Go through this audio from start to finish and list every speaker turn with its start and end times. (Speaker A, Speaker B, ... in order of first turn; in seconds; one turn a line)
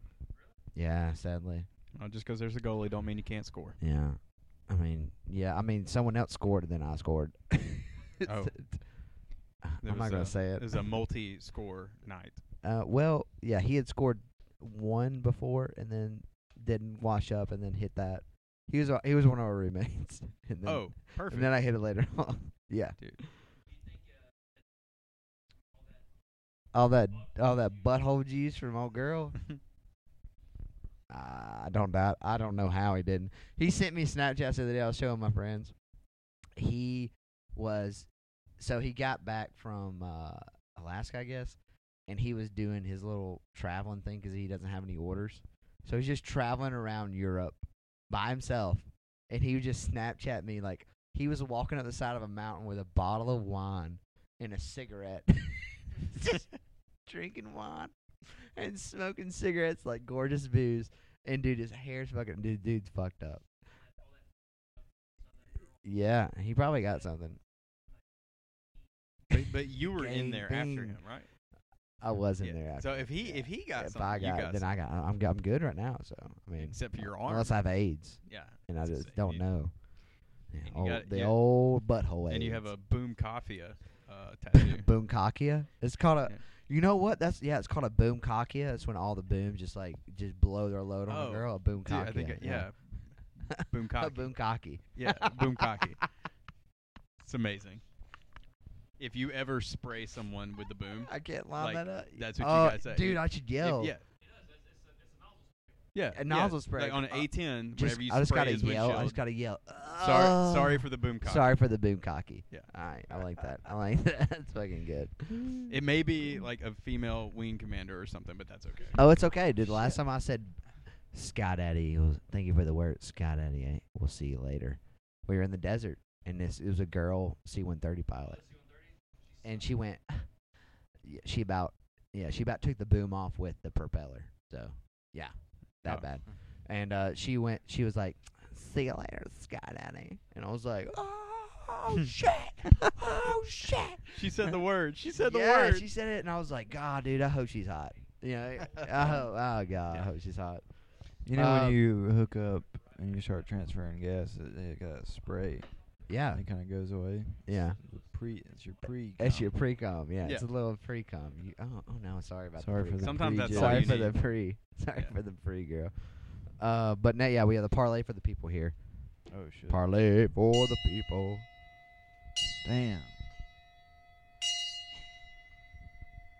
Speaker A: 0.7-1.7
Speaker B: 1.9-3.8
Speaker A: 3.8-8.9
Speaker B: 8.2-8.7
Speaker A: 9.6-10.8
Speaker B: 9.8-12.4
Speaker A: 12.6-23.5
Speaker B: 20.6-21.5
Speaker A: 26.7-29.5
Speaker A: 31.1-35.7
Speaker A: 36.6-56.5
Speaker A: 57.0-63.6
Speaker A: 65.7-67.4
Speaker B: 69.3-71.3
Speaker A: 69.9-71.0
Speaker A: 72.0-82.7
Speaker B: 72.4-74.7
Speaker B: 76.6-79.5
Speaker B: 80.6-81.6
Speaker B: 82.2-84.9
Speaker A: 84.5-92.7
Speaker B: 91.1-94.3
Speaker A: 93.5-96.0
Speaker B: 94.9-96.0
Speaker B: 97.2-97.8
Speaker B: 99.0-104.0
Speaker A: 101.0-103.9
Speaker B: 105.9-109.2
Speaker A: 106.1-115.7
Speaker B: 110.0-111.6
Speaker B: 115.7-119.0
Speaker A: 119.0-120.6
Speaker B: 119.7-120.0
Speaker A: 121.1-128.4
Speaker A: 129.4-130.2
Speaker A: 131.0-144.5
Speaker B: 144.1-145.9
Speaker A: 145.1-151.8
Speaker C: 151.2-155.7
Speaker A: 156.1-156.4
Speaker C: 156.3-159.5
Speaker A: 157.4-157.8
Speaker A: 159.2-168.8
Speaker C: 162.6-164.1
Speaker B: 163.0-164.2
Speaker C: 169.3-169.8
Speaker A: 169.7-171.4
Speaker C: 172.6-173.1